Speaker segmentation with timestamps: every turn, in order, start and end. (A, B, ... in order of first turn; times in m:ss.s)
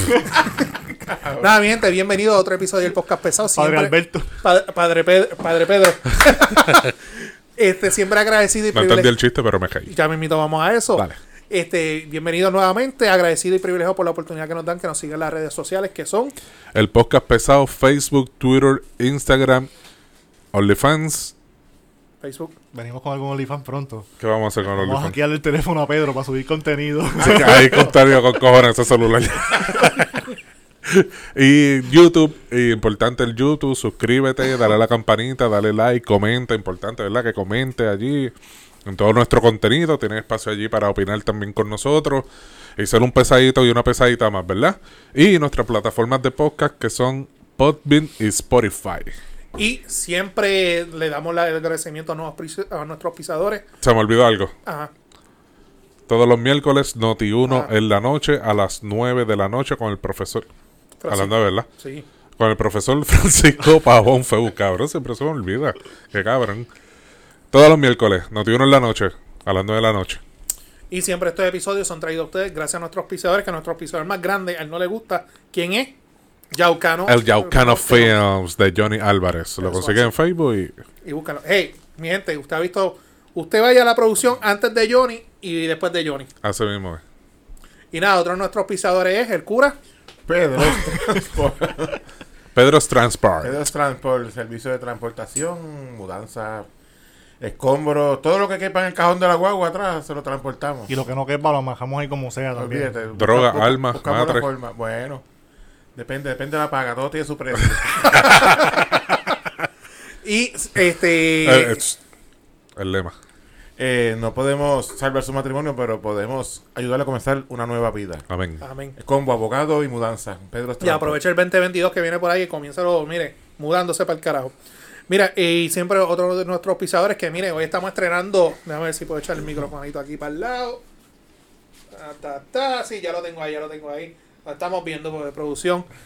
0:01.1-0:01.5 A
0:01.4-0:06.9 B
0:03.6-0:04.3 C
0:07.6-0:09.1 B
0:08.7-0:09.9 D
0:09.9-0:16.3 B
0:16.7-0:19.7 D
0:20.5-0:21.3 D
0:22.2-0:22.6 B
0:22.7-0:24.1 C
0:24.2-0:25.2 D
0:24.7-0:27.9 C
0:27.2-0:30.3 D
0:27.5-0:27.9 A
0:30.8-0:38.3 D
0:38.9-0:42.3 D
0:42.8-0:49.1 D
0:49.6-0:53.6 B
0:53.8-0:54.5 D
0:54.7-0:54.9 B
0:56.1-1:00.5 D
0:57.4-0:57.7 B
1:01.0-1:02.0 B
1:01.1-1:01.7 D
1:02.4-1:06.7 D
1:07.5-1:10.2 D
1:10.9-1:16.0 B
1:16.5-1:18.1 B
1:17.1-1:20.8 D
1:19.6-1:20.1 B
1:21.0-1:26.3 B
1:26.4-1:27.0 D
1:27.9-1:29.8 B
1:30.3-1:32.0 A
1:32.6-1:33.6 D
1:33.4-1:36.7 A
1:37.4-1:40.9 A
1:40.9-1:42.9 C
1:42.5-1:45.2 A
1:43.2-1:44.5 D
1:46.0-1:48.3 A
1:48.3-1:48.7 D
1:50.2-1:51.8 B
1:51.4-1:52.0 D
1:52.8-1:53.1 D
1:53.8-1:58.2 A
1:58.3-1:58.6 D
1:58.6-1:59.0 B
1:59.0-2:01.2 A
2:00.8-2:04.5 B
2:05.1-2:10.8 B
2:11.9-2:15.9 B